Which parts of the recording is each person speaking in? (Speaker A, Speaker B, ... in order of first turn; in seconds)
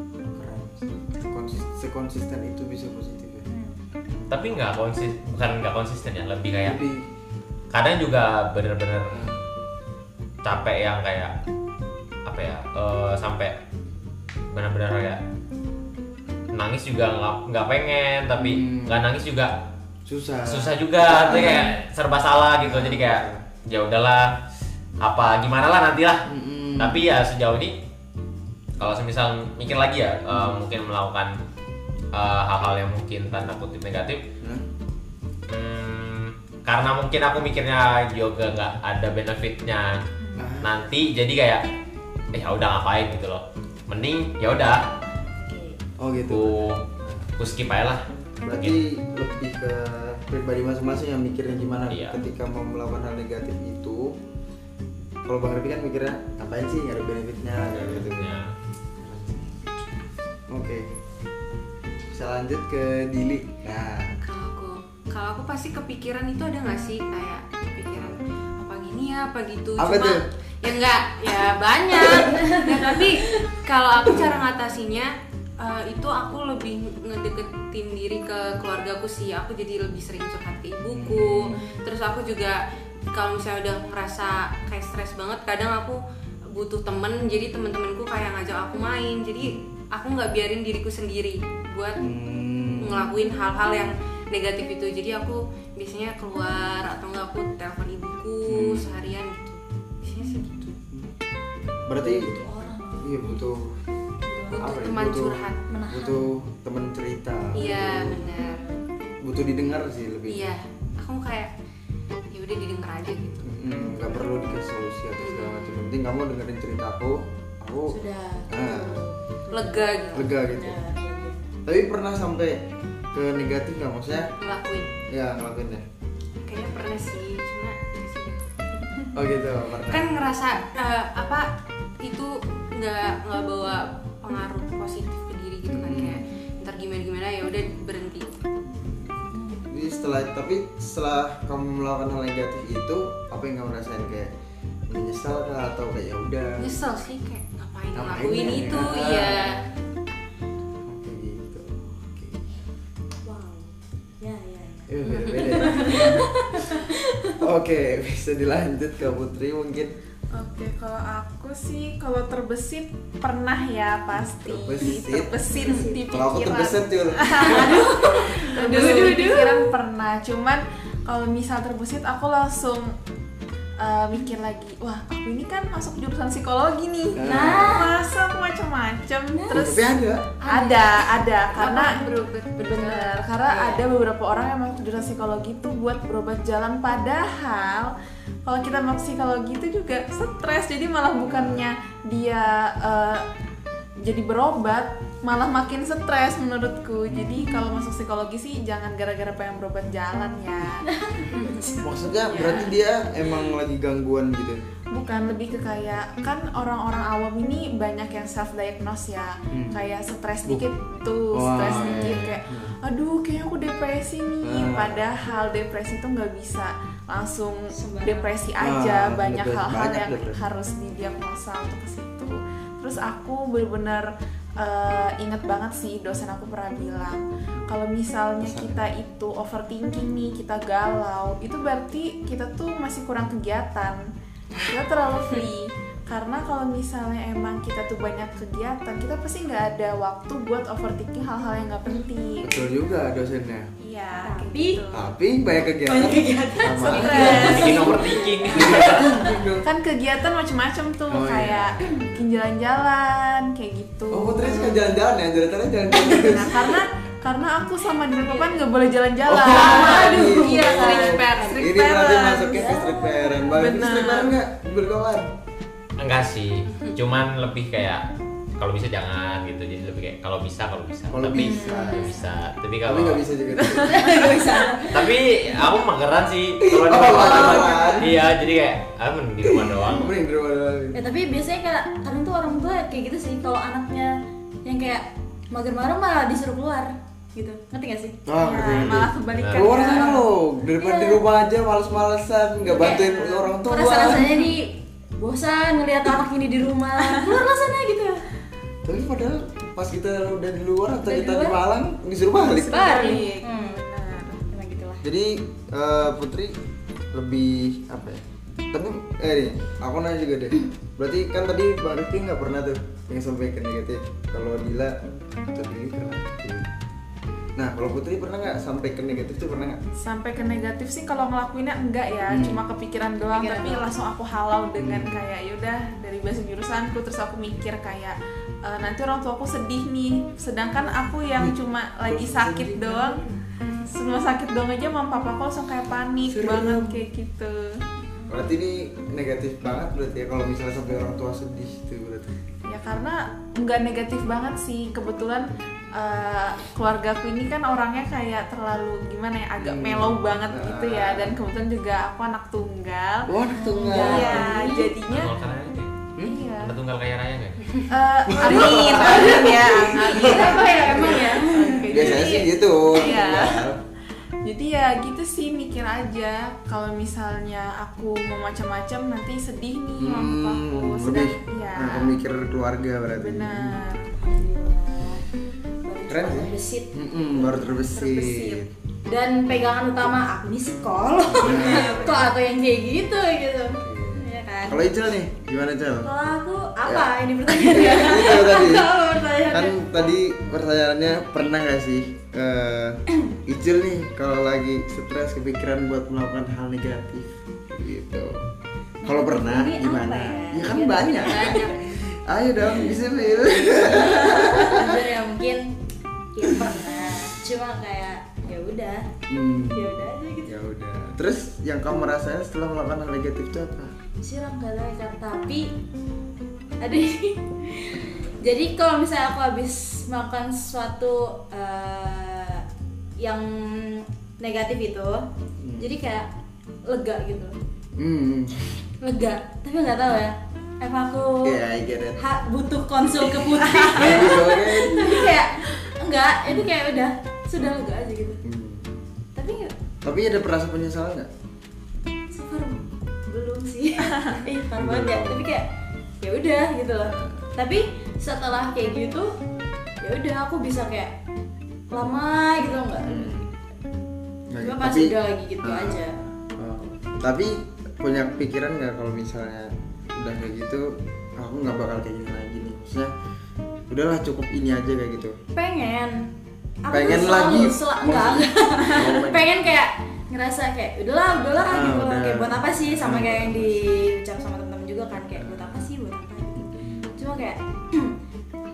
Speaker A: 0.2-3.5, 6.6-7.0, 9.1-9.4, 18.4-19.0, 20.1-21.7, 22.6-23.4, 26.3-27.0, 40.4-40.8, 46.0-47.3, 48.4-54.2, 55.2-58.4, 59.0-59.5, 60.5-60.9, 62.1-64.2, 69.8-70.3, 74.1-74.4, 80.9-81.6, 89.4-89.7, 92.0-93.1, 98.5-98.9, 101.8-102.3, 103.0-103.8, 104.6-105.4, 105.9-108.2, 109.2-110.5, 113.4-118.0, 118.5-119.0, 120.1-120.8, 121.7-122.6, 123.1-124.3, 125.1-125.8, 129.1-130.1, 135.7-136.2, 138.7-144.3, 144.9-146.8, 147.9-149.6, 150.8-152.5, 154.9-156.3, 157.4-159.9, 164.1-165.4, 166.1-167.8, 177.1-177.9, 179.5-180.3, 191.2-191.7, 197.1-197.6, 201.8-204.6, 209.5-209.8, 211.3-212.7, 214.4-215.1, 218.6-220.4, 228.4-228.8, 242.4-243.7, 244.9-249.7, 251.1-252.3, 254.1-256.8, 259.2-265.3, 271.1-272.2, 272.9-274.3, 276.6-278.2, 279.4-281.0, 288.3-294.5, 298.9-303.2, 305.0-306.6, 307.1-315.0, 315.5-316.7, 317.6-319.8, 322.3-322.6, 324.8-325.2, 331.4-333.3, 336.3-337.0, 338.3-342.3, 349.6-351.4, 353.3-354.5, 358.3-361.4, 361.9-363.8, 370.0-373.8, 376.1-378.7, 381.2-382.3, 383.8-386.1, 386.9-389.0, 389.5-398.4, 399.0-405.0, 409.3-413.9, 425.6-425.9, 428.0-428.8, 431.4-432.2, 433.2-435.3, 436.4-436.7, 438.4-438.9, 440.0-441.3, 444.8-445.5, 447.0-447.4, 453.0-453.5, 454.5-456.0, 456.6-463.1, 463.9-465.4, 466.9-469.6, 471.6-474.0, 475.4-475.9, 476.6-477.1
Speaker B: 3.5-3.8, 40.2-40.5, 45.4-45.8, 72.3-73.0, 100.2-100.7, 102.0-103.5, 104.2-104.9, 105.7-106.3, 117.9-121.5, 139.3-139.7, 153.2-157.4, 165.5-166.1, 167.3-169.6, 177.2-178.0, 179.3-179.6, 200.9-201.7, 211.7-212.1, 217.7-218.3, 244.1-244.8, 245.9-249.3, 258.2-258.6, 259.6-261.1, 262.3-263.5, 271.3-272.3, 273.9-275.1, 277.0-278.0, 280.9-288.2, 290.8-291.2, 292.6-298.2, 301.1-301.6, 302.4-303.9, 304.5-305.0, 323.3-323.9, 353.5-354.9, 358.5-361.9, 374.1-375.3, 375.8-377.9, 379.1-384.8, 386.0-390.1, 399.0-401.7, 403.6-405.8, 406.3-409.1, 409.7-410.6, 414.2-415.8, 416.8-422.6, 423.2-425.3, 425.8-426.3, 426.9-427.6, 429.0-431.6, 432.2-438.4, 439.4-439.7, 442.3-445.7, 446.2-449.4, 450.0-451.1, 451.9-453.4, 454.6-456.2, 465.5-466.3, 466.9-478.2
Speaker C: 4.3-6.8, 7.7-9.2, 10.4-11.3, 12.3-13.6, 14.5-15.2, 16.5-19.6, 20.4-24.4, 25.0-26.2, 26.8-27.8, 28.8-31.4, 32.1-34.2, 35.5-40.0, 40.6-41.6, 42.3-44.8, 46.2-46.8, 47.4-48.8, 51.9-52.2, 57.8-58.5, 247.1-249.1, 266.0-268.1, 268.6-273.2, 274.9-280.2, 288.7-289.9, 355.1-357.8
Speaker D: 64.2-82.6, 83.1-86.0, 86.5-92.0, 92.8-100.8, 104.6-105.6, 107.5-108.7, 110.3-111.5, 112.3-113.5, 115.2-116.0, 119.5-120.3, 124.4-125.0, 126.4-128.4, 129.9-138.4, 146.6-149.6, 155.1-156.2, 168.4-169.6, 180.4-183.8, 201.3-201.7, 202.3-202.7, 259.5-262.3, 359.0-359.6, 360.2-361.4, 401.2-402.0
Speaker E: 160.3-172.9, 173.8-182.1, 182.6-187.9, 188.4-193.3, 194.0-200.9, 201.4-201.7, 202.3-202.7, 204.9-234.1, 234.6-242.7, 243.8-245.1, 246.8-248.1, 249.6-254.8, 256.0-262.8, 263.5-264.4, 273.6-274.8, 288.4-290.3, 292.8-293.3, 302.5-304.4, 320.0-337.8, 342.7-353.3, 353.9-355.4, 356.2-356.8, 357.9-363.7, 364.4-372.2, 373.2-374.1, 378.0-378.6, 381.5-381.8, 444.1-444.4